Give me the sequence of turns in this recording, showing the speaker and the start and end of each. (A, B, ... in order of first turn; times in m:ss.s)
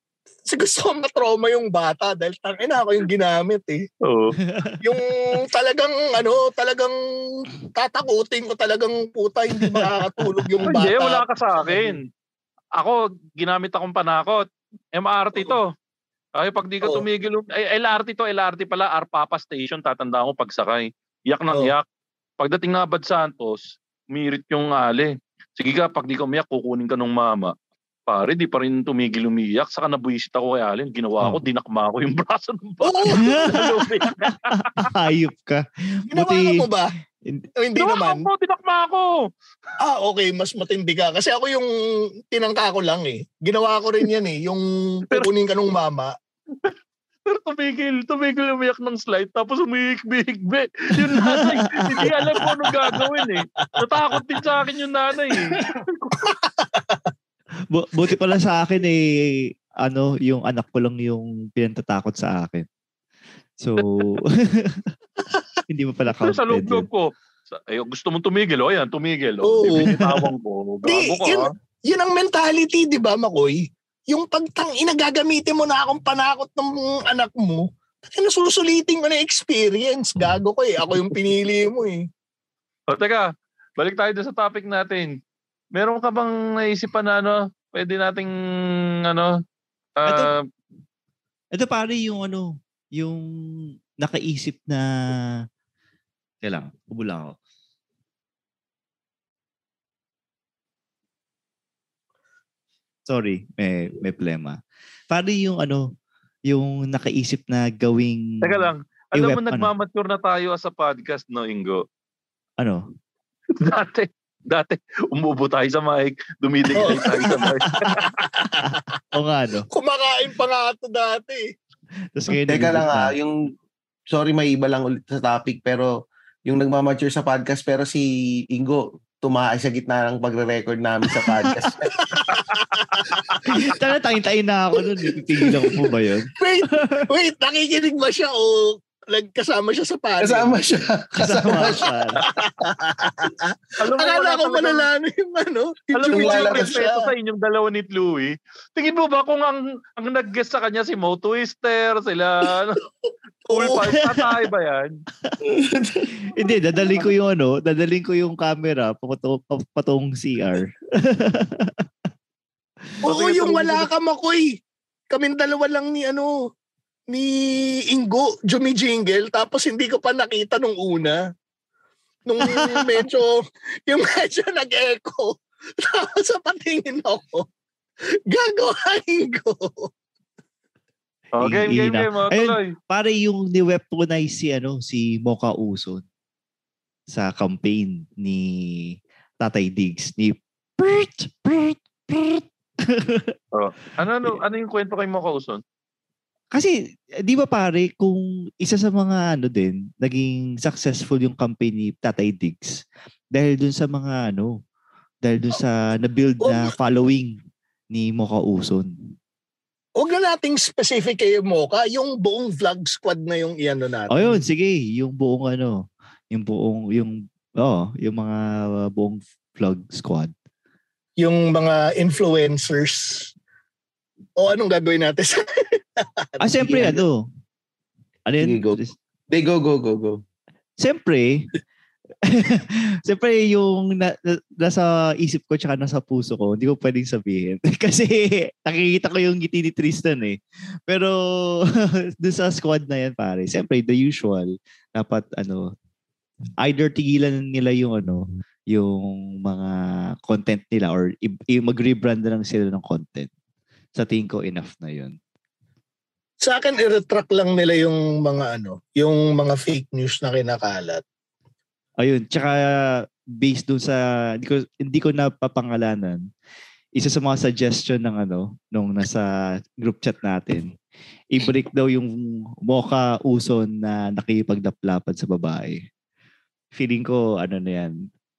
0:00.5-0:03.8 A
0:04.1-0:04.4 B
0:04.4-0:04.8 C
0:04.8-0:12.0 A
0:09.7-0:10.6 C
0:10.6-0:12.0 B
0:12.8-0:15.7 B
0:16.4-0:21.8 B
0:22.4-0:27.5 B
0:28.1-0:34.9 B
0:32.8-0:34.0 A
0:33.1-0:36.6 C
0:36.1-0:36.9 A
0:37.6-0:38.3 A
0:37.8-0:39.3 B
0:39.8-0:41.7 A
0:42.3-0:46.1 A
0:47.3-0:56.2 B
0:51.1-0:52.1 C
0:52.0-0:52.7 A
0:55.3-0:55.6 A
0:56.2-0:57.1 A
0:57.7-1:02.7 C
1:03.6-1:04.9 C
1:05.7-1:06.9 C
1:06.1-1:11.5 B
1:09.4-1:10.0 A
1:09.7-1:10.2 C
1:10.8-1:22.1 A
1:22.9-1:25.2 B
1:25.7-1:28.3 B
1:29.1-1:29.3 B
1:30.0-1:30.4 B
1:30.0-1:30.3 C
1:31.5-1:33.3 C
1:34.0-1:35.2 C
1:36.4-1:37.4 C
1:43.1-1:44.6 C
1:45.1-1:45.9 C
1:46.5-1:49.7 C
1:48.4-1:51.8 B
1:52.6-1:52.8 C
1:53.6-1:58.0 B
1:56.8-1:58.8 A
1:58.6-1:59.7 C
1:59.7-2:01.4 A
2:02.1-2:03.1 C
2:02.5-2:03.5 D
2:04.1-2:05.9 D
2:06.5-2:12.0 D
2:12.1-2:13.6 A
2:13.5-2:17.1 C
2:16.4-2:20.6 A
2:20.2-2:21.9 D
2:21.2-2:22.2 C
2:22.2-2:23.4 A
2:23.8-2:24.9 B
2:23.9-2:27.0 A
2:25.9-2:32.8 B
2:26.1-2:26.8 D
2:33.5-2:34.0 A
2:33.5-2:35.0 B
2:35.4-2:36.1 D
2:36.3-2:41.8 C
2:43.0-2:43.9 C
2:43.0-2:44.6 A
2:45.1-2:46.4 A
2:47.1-2:51.2 A
2:52.3-2:57.5 A
2:58.3-2:59.9 A
3:01.4-3:02.7 B
3:01.4-3:06.0 C
3:07.1-3:13.4 C
3:13.5-3:15.6 B
3:17.2-3:22.8 C
3:23.3-3:24.6 C
3:25.2-3:27.4 C
3:26.4-3:26.7 A
3:27.9-3:28.9 C
3:30.0-3:34.4 A
3:34.1-3:40.3 C
3:41.2-3:43.3 A
3:44.4-3:46.9 A
3:46.4-3:47.3 C
3:46.7-3:47.0 D
3:48.3-3:49.0 C
3:48.4-3:48.8 D
3:49.3-3:50.2 D
3:50.8-3:51.5 C
3:52.2-4:05.7 C
4:06.6-4:13.3 C
4:14.0-4:15.2 C
4:16.4-4:21.0 A
4:22.0-4:26.2 C
4:27.0-4:29.3 C
4:29.8-4:30.8 C
4:31.3-4:35.8 C
4:36.7-4:38.1 C